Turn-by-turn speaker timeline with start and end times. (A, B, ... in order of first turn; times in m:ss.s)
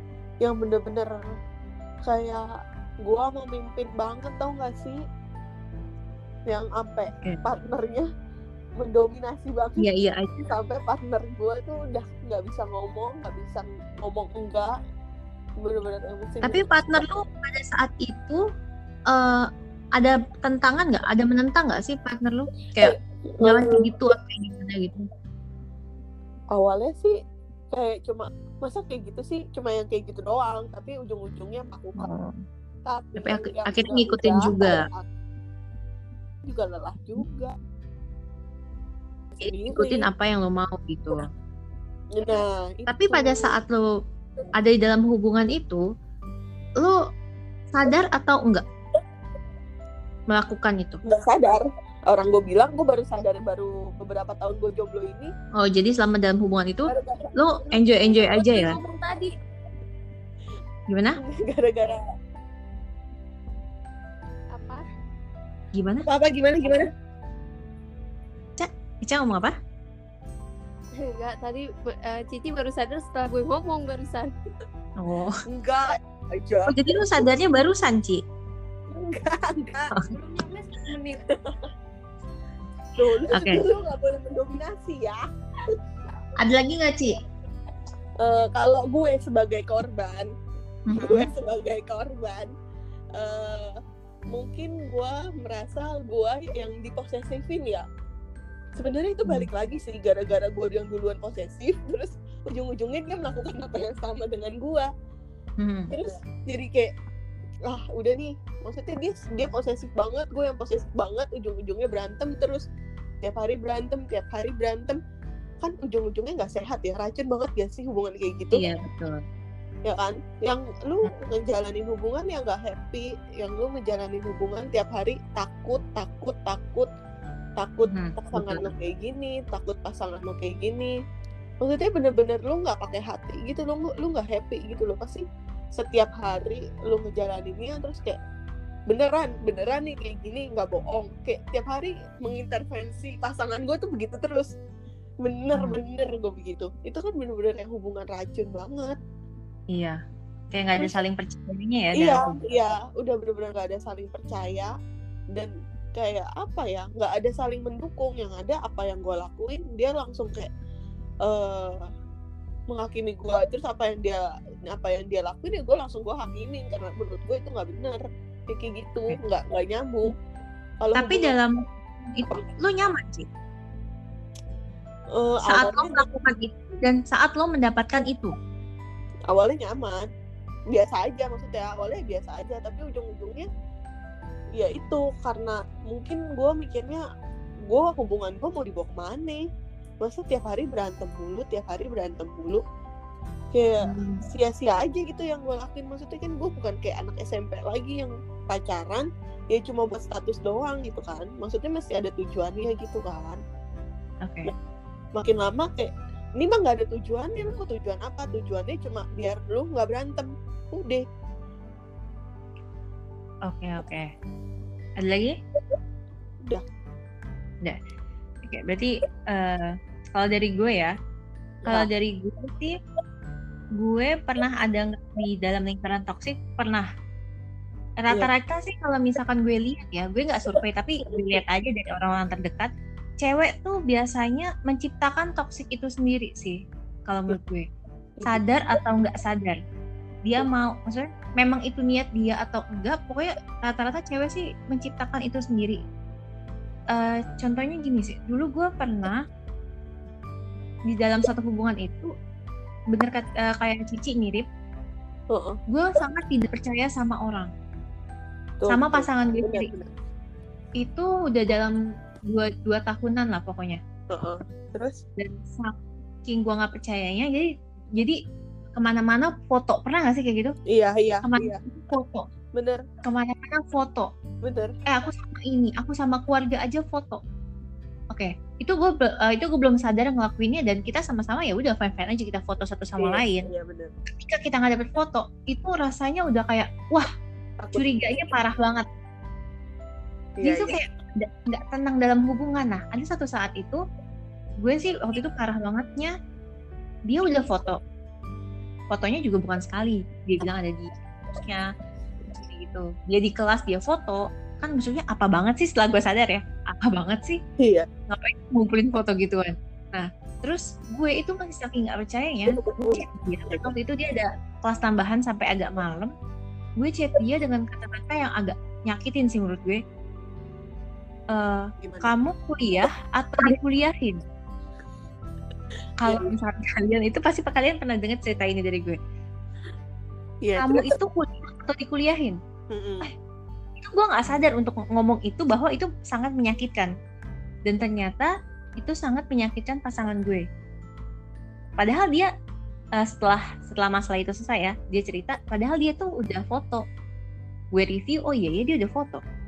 0:00.4-0:01.1 A
0:02.0-0:02.4 A
0:03.0-0:05.0 A
0:06.5-0:08.1 A
0:08.8-0:09.9 A
0:09.8-0:10.5 B
0:10.5-0:14.8 A
0:15.6-0:16.7 A
0:16.4-0:18.4 B
0:19.1-0:25.1 B
0:22.8-0:23.9 A
0:26.5-0:27.2 A
0:27.7-0:32.1 A
0:32.0-0:32.4 B
0:32.8-0:35.0 A
0:33.2-0:34.8 B
0:36.4-0:37.6 A
0:39.4-0:41.3 B
0:39.4-0:40.1 A
0:42.2-0:43.6 A
0:42.9-0:43.9 B
0:44.6-0:45.8 B
0:47.7-0:48.6 B
0:50.3-0:51.0 B
0:51.0-0:55.3 A
0:55.6-0:58.8 B
0:56.9-0:57.3 A
0:58.2-0:59.3 C
1:00.9-1:01.2 B
1:01.2-1:02.0 A
1:04.5-1:04.8 C
1:05.7-1:06.1 B
1:06.0-1:06.9 A
1:08.6-1:09.5 B
1:11.0-1:14.3 C
1:15.0-1:15.4 B
1:15.5-1:16.7 A
1:16.7-1:18.2 B
1:18.9-1:19.9 A
1:20.1-1:21.2 C
1:23.0-1:25.8 A
1:23.3-1:23.6 B
1:26.4-1:27.1 B
1:28.2-1:30.3 A
1:30.9-1:31.3 B
1:31.0-1:32.5 A
1:33.1-1:33.8 A
1:34.3-1:37.8 A
1:38.8-1:44.9 A
1:45.6-1:45.9 B
1:45.9-1:46.9 A
1:47.6-1:52.6 A
1:53.2-1:55.0 A
1:55.6-1:58.6 A
1:58.5-1:59.2 B
1:59.8-2:06.9 A
2:07.6-2:10.9 A
2:07.9-2:08.7 B
2:11.6-2:18.2 A
2:18.9-2:24.5 A
2:25.2-2:29.0 A
2:25.5-2:25.8 B
2:29.7-2:30.0 B
2:30.5-2:32.4 B
2:31.9-2:34.7 A
2:35.3-2:40.5 A
2:41.2-2:41.9 A
2:42.7-2:50.1 A
2:50.8-2:51.3 A
2:50.9-2:53.3 B
2:55.1-2:56.0 A
2:55.5-2:58.3 B
2:59.3-3:00.1 A
3:00.7-3:03.5 A
3:04.5-3:07.0 A
3:07.7-3:09.4 A
3:10.0-3:12.6 A
3:13.5-3:23.4 A
3:13.8-3:14.2 B
3:24.2-3:24.5 B
3:25.1-3:31.0 A
3:33.5-3:34.1 B
3:35.0-3:35.3 B
3:38.4-3:40.9 B
3:41.7-3:42.8 B
3:43.8-3:46.8 B
3:48.0-3:52.7 B
3:53.2-3:57.6 B
3:58.2-3:58.4 A
3:58.2-3:59.6 B
4:00.2-4:05.8 B
4:06.9-4:09.2 B
4:10.9-4:12.1 B
4:12.9-4:14.4 B
4:15.3-4:15.6 A
4:15.7-4:17.5 B
4:18.6-4:19.9 A
4:18.7-4:19.7 B
4:20.8-4:21.8 B
4:22.3-4:23.8 B
4:24.1-4:25.0 A
4:25.2-4:28.2 B
4:28.8-4:30.5 B
4:30.7-4:31.6 A
4:31.2-4:32.3 B
4:32.5-4:32.8 A
4:33.0-4:34.1 B
4:34.4-4:34.7 A
4:34.8-4:37.2 B
4:38.1-4:43.5 B
4:43.0-4:43.9 A
4:44.2-4:47.1 B
4:47.6-4:47.9 A
4:47.8-4:48.8 B
4:50.4-4:50.8 A
4:50.4-4:53.8 B
4:54.6-4:56.1 B
4:57.1-4:57.8 B
4:58.9-5:01.7 B
5:02.3-5:07.4 B
5:07.6-5:07.9 A
5:08.1-5:16.1 B
5:12.6-5:13.0 A
5:16.8-5:19.8 B
5:21.3-5:24.2 B
5:21.8-5:22.2 A
5:26.0-5:29.0 B
5:30.4-5:31.0 A
5:30.6-5:32.4 B
5:32.7-5:33.1 A
5:33.8-5:36.9 B
5:37.6-5:40.4 B
5:41.8-5:42.3 B
5:43.0-5:46.8 B
5:47.7-5:49.2 B